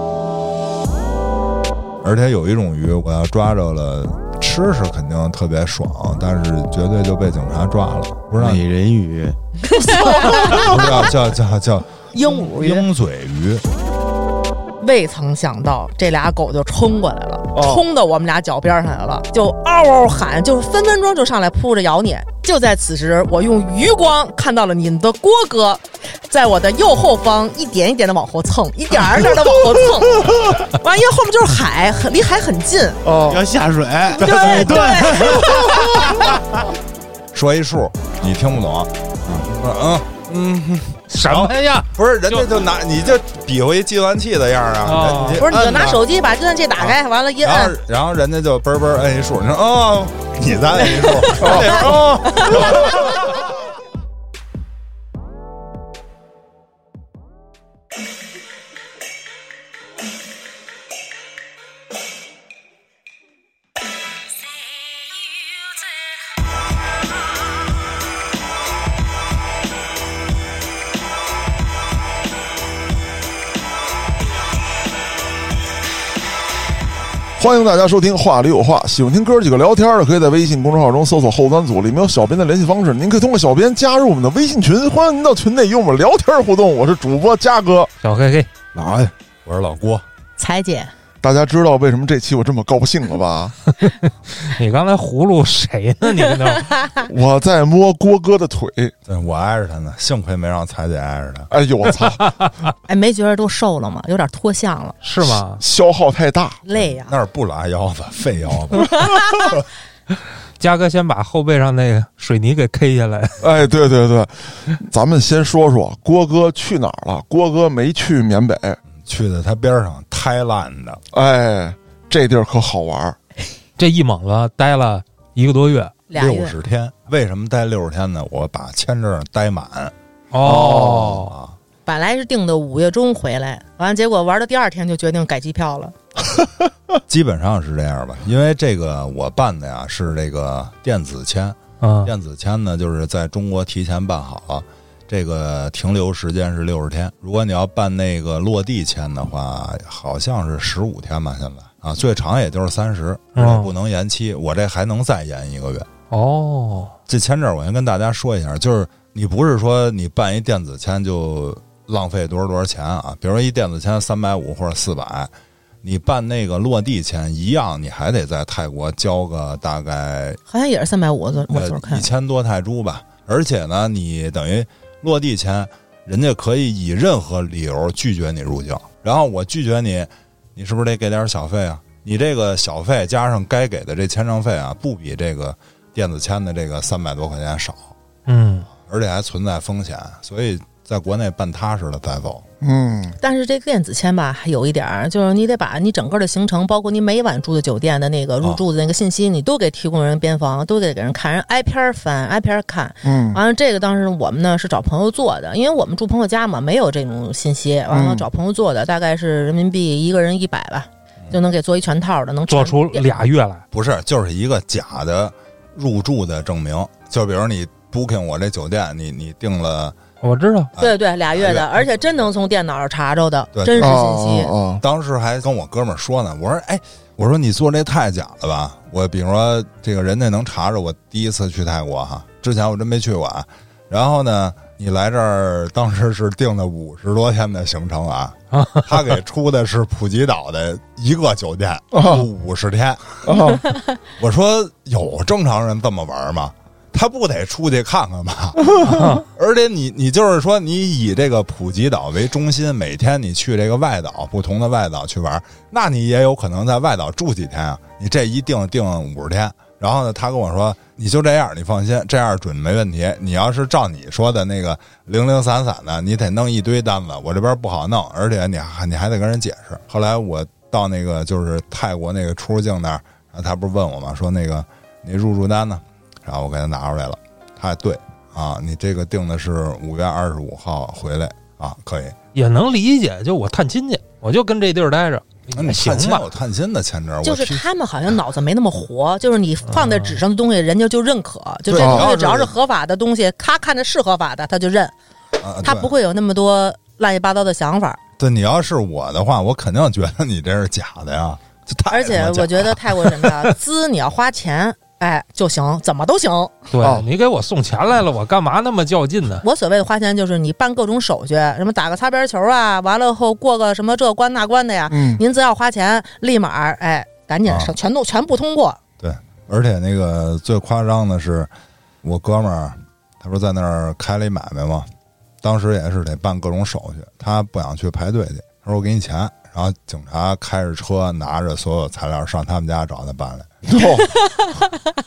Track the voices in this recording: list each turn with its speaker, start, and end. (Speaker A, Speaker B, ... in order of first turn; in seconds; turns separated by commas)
Speaker A: 2.0-8.6, Speaker B: 8.4-9.3, Speaker C: 9.7-11.1, Speaker B: 9.9-10.3, Speaker A: 10.4-13.6, Speaker C: 12.1-12.8, Speaker C: 14.8-33.0, Speaker D: 17.5-17.8, Speaker D: 33.0-33.4, Speaker B: 33.3-35.6, Speaker C: 34.1-36.3, Speaker A: 34.2-35.4, Speaker A: 37.3-38.9, Speaker A: 39.5-46.0, Speaker E: 41.1-42.5, Speaker E: 44.8-45.5, Speaker C: 45.4-47.8, Speaker A: 46.8-53.3, Speaker C: 50.8-53.0, Speaker D: 51.4-51.8, Speaker D: 77.4-87.9, Speaker E: 88.0-88.5, Speaker B: 88.7-89.1, Speaker A: 89.4-90.0, Speaker C: 90.4-90.9, Speaker D: 91.2-93.5, Speaker E: 93.8-96.7, Speaker C: 96.8-97.1, Speaker D: 97.0-98.9, Speaker A: 99.1-101.5, Speaker D: 101.5-102.3, Speaker C: 102.8-105.0, Speaker E: 105.0-105.6, Speaker D: 105.3-106.6, Speaker C: 106.7-107.1, Speaker A: 106.8-109.0, Speaker C: 109.0-109.4, Speaker E: 110.6-113.4, Speaker D: 113.4-118.8, Speaker A: 119.0-121.0, Speaker D: 121.1-123.2, Speaker E: 123.8-126.0, Speaker C: 126.1-126.5, Speaker A: 126.1-129.9, Speaker E: 130.3-131.3, Speaker D: 130.4-131.3, Speaker A: 131.2-131.5, Speaker C: 131.8-135.9, Speaker A: 137.1-155.9, Speaker E: 141.8-142.1, Speaker E: 153.3-153.7, Speaker E: 156.1-156.9, Speaker A: 157.1-165.3, Speaker A: 165.8-170.4, Speaker C: 170.5-172.0, Speaker A: 171.5-187.9, Speaker E: 188.2-188.7, Speaker A: 188.8-192.4, Speaker D: 192.6-193.2, Speaker C: 193.2-213.1, Speaker D: 203.0-203.4, Speaker D: 207.9-208.3, Speaker E: 212.5-213.6, Speaker A: 213.7-219.9, Speaker E: 220.2-220.7, Speaker A: 220.8-221.8, Speaker C: 220.8-224.5, Speaker A: 223.5-224.0, Speaker D: 223.8-224.8, Speaker A: 224.8-243.2, Speaker E: 238.5-239.1, Speaker D: 241.9-242.2, Speaker D: 243.2-243.6, Speaker A: 244.2-282.1, Speaker E: 248.8-249.2, Speaker E: 282.3-286.3, Speaker A: 285.5-287.6, Speaker C: 287.2-294.9, Speaker E: 289.7-290.1, Speaker A: 291.7-292.5, Speaker D: 291.8-292.1, Speaker A: 295.4-295.9, Speaker C: 295.6-298.0, Speaker A: 298.2-303.5, Speaker C: 301.9-306.7, Speaker E: 306.7-309.4, Speaker D: 306.8-307.1, Speaker C: 309.4-318.8, Speaker D: 314.9-315.2, Speaker A: 317.4-317.7, Speaker A: 319.0-321.5, Speaker A: 322.0-324.9, Speaker A: 325.4-333.5, Speaker D: 333.6-334.1